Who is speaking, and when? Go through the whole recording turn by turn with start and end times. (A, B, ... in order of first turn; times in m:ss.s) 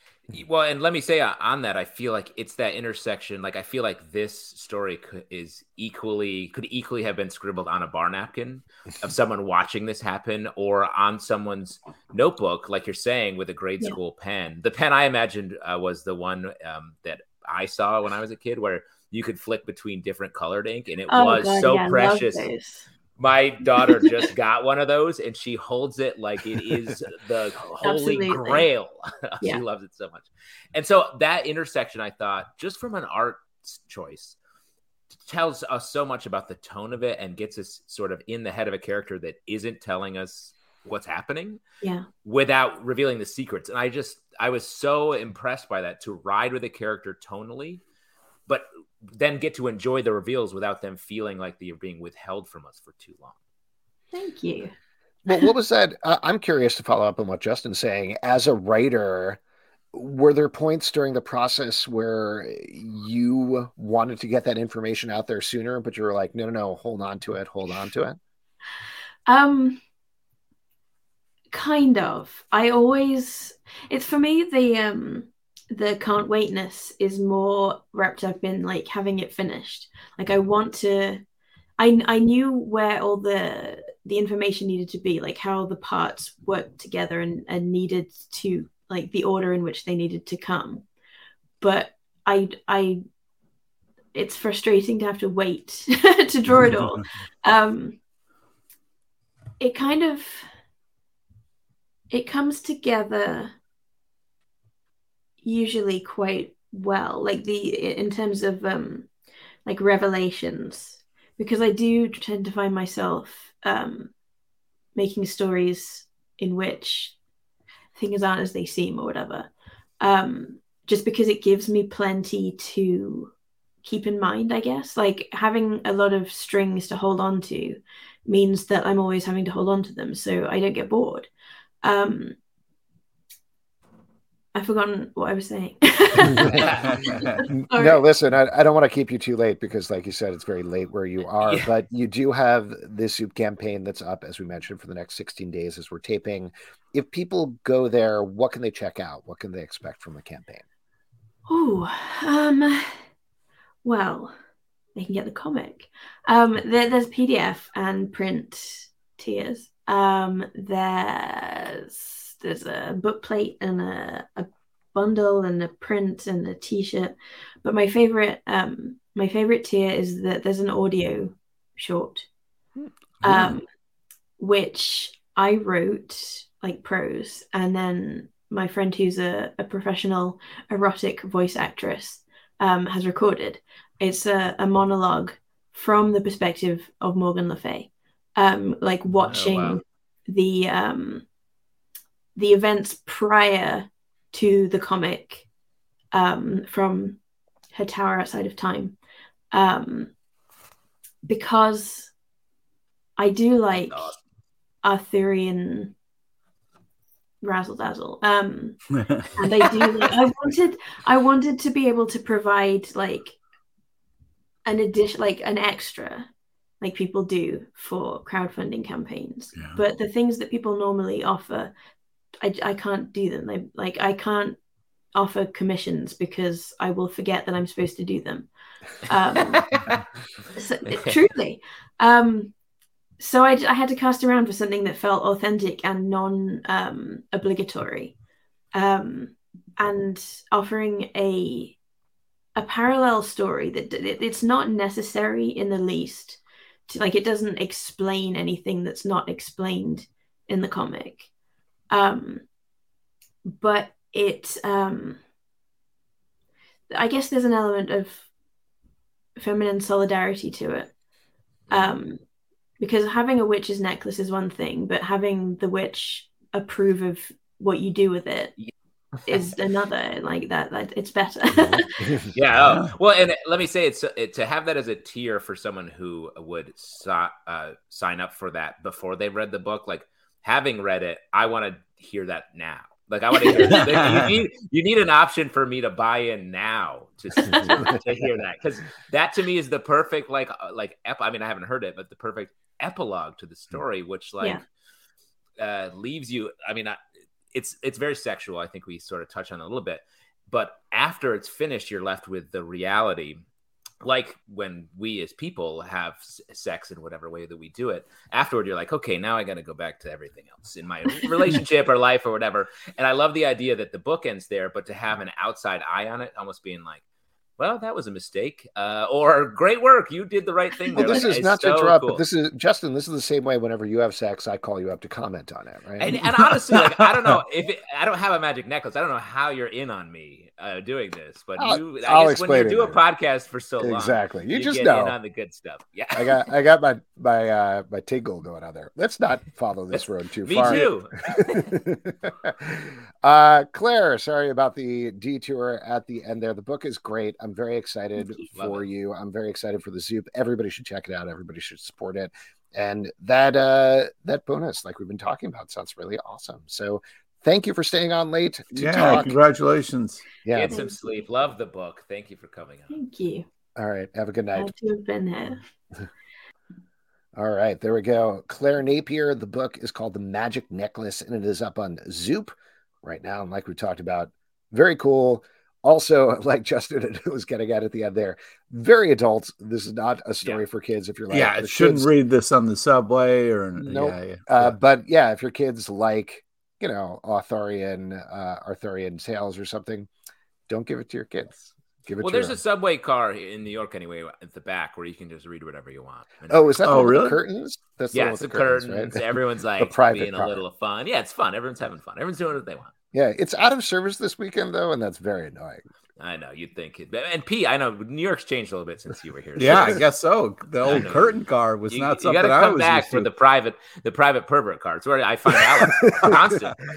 0:00.3-0:22.5 A
0:21.1-0:22.9 B
0:23.2-0:34.4 A
0:23.8-0:24.2 B
0:27.8-0:28.7 B
0:35.2-0:41.6 A
0:42.2-0:47.8 A
0:48.5-0:53.4 A
0:54.1-0:54.7 B
0:55.2-0:59.4 C
0:59.9-1:08.2 C
1:09.3-1:09.8 B
1:11.5-1:21.2 B
1:21.8-1:30.8 B
1:31.6-1:33.0 B
1:34.1-1:38.0 B
1:36.5-1:37.1 D
1:39.6-1:40.5 B
1:42.1-1:43.5 B
1:45.4-1:49.1 B
1:49.6-1:54.1 B
1:54.9-1:57.2 B
1:57.9-2:03.3 B
2:03.8-2:11.3 B
2:11.8-2:12.4 B
2:14.5-2:18.0 B
2:16.3-2:16.7 C
2:16.5-2:17.0 A
2:16.8-2:17.4 D
2:17.6-2:30.6 C
2:31.5-2:33.0 B
2:33.8-2:34.4 B
2:34.9-2:52.3 B
2:53.2-2:53.5 D
2:53.2-2:53.6 B
2:54.4-3:11.2 B
3:09.1-3:09.7 D
3:12.3-3:15.4 B
3:16.1-3:17.2 B
3:17.7-3:19.0 B
3:19.5-3:20.1 B
3:21.2-3:22.1 B
3:23.2-3:24.2 B
3:23.7-3:24.1 D
3:24.8-3:25.9 B
3:27.4-3:28.8 B
3:28.9-3:29.3 D
3:29.4-3:33.4 B
3:34.6-3:36.3 B
3:36.8-3:41.7 B
3:39.5-3:39.8 D
3:42.4-3:44.6 B
3:45.1-3:48.5 B
3:49.1-3:49.7 B
3:49.5-3:49.8 A
3:50.6-3:52.5 B
3:50.9-3:51.2 A
3:53.2-3:58.1 B
3:58.7-4:01.8 B
4:02.6-4:11.3 B
4:11.9-4:12.4 B
4:13.5-4:15.2 B
4:16.9-4:18.3 B
4:19.4-4:20.9 B
4:21.7-4:22.2 B
4:22.8-4:28.5 B
4:29.2-4:32.2 B
4:32.3-4:54.6 A
4:32.6-4:32.9 D
4:43.5-4:44.3 D
4:47.6-4:47.9 C
4:55.6-4:57.0 A
4:57.5-5:03.4 A
5:04.0-5:17.0 A
5:17.6-5:22.2 A
5:20.9-5:26.2 C
5:26.0-5:36.4 A
5:31.6-5:33.0 C
5:33.8-5:35.2 C
5:36.1-5:59.4 C
5:39.9-5:41.7 A
5:40.6-5:40.8 D
5:48.6-5:48.8 A
5:58.7-6:00.2 D
6:00.4-6:00.8 C
6:00.5-6:02.9 A
6:00.7-6:01.2 B
6:02.9-6:03.5 B
6:03.8-6:04.7 C
6:04.5-6:05.6 B
6:07.3-6:12.5 C
6:13.0-6:22.1 C
6:21.3-6:24.8 D
6:23.8-6:30.1 C
6:30.7-6:32.6 C
6:32.2-6:37.2 A
6:36.5-6:40.6 C
6:36.8-6:37.4 D
6:38.1-6:42.9 A
6:43.1-6:45.8 C
6:46.2-6:50.0 A
6:49.6-6:53.3 D
6:50.8-6:56.8 A